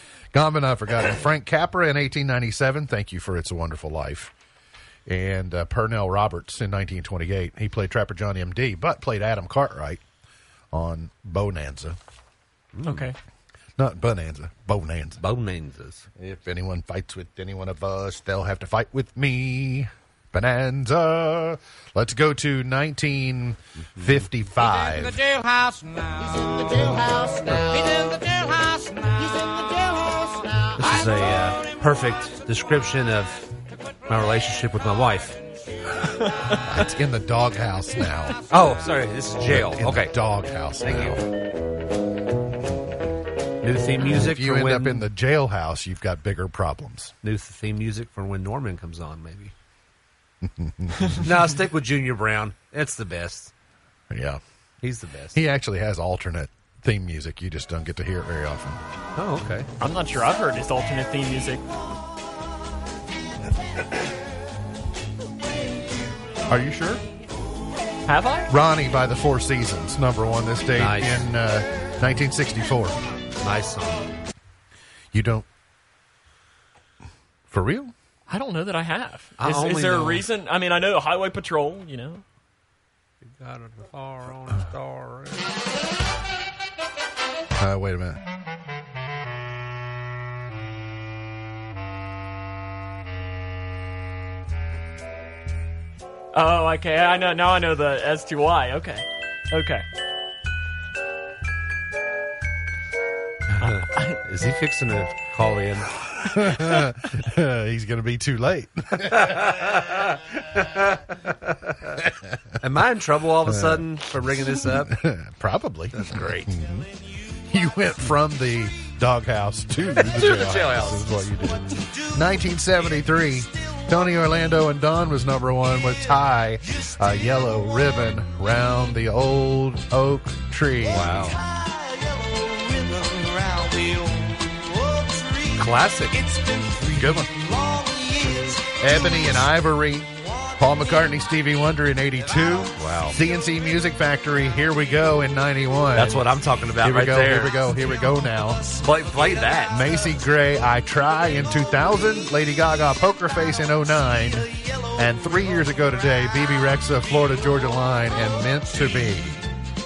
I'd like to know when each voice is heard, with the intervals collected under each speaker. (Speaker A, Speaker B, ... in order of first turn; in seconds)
Speaker A: 0.3-4.3, 5.1-10.0, 10.7-12.0, 13.8-15.2, 16.2-25.2, 36.6-38.4, 39.4-41.2, 44.1-47.1, 50.4-51.2, 54.1-54.4, 55.3-58.8, 66.5-67.0, 68.5-73.0, 75.1-75.5, 77.5-77.9, 87.6-88.2, 106.2-109.5, 113.5-113.8, 114.7-116.9, 117.5-131.2, 136.9-137.3, 138.7-146.2, 146.8-148.7, 149.7-159.5
Speaker B: 12.7-13.1, 15.2-16.1, 30.8-33.5, 34.1-35.4, 38.5-40.1, 40.8-41.2, 43.6-45.1, 47.2-49.5, 51.2-53.5, 54.8-55.4, 59.1-59.7, 70.8-71.3, 73.4-74.1, 79.4-80.2, 83.2-85.5, 103.6-105.9, 109.1-112.0, 112.6-115.0, 116.0-116.5, 119.9-121.0, 130.8-131.4, 135.6-136.2, 142.8-143.2, 145.9-147.6, 148.7-149.8
Speaker C: 12.8-13.2, 59.8-61.7, 68.0-68.5, 78.3-82.2, 96.3-99.8, 103.6-104.2
Speaker D: 26.2-30.6, 131.3-138.8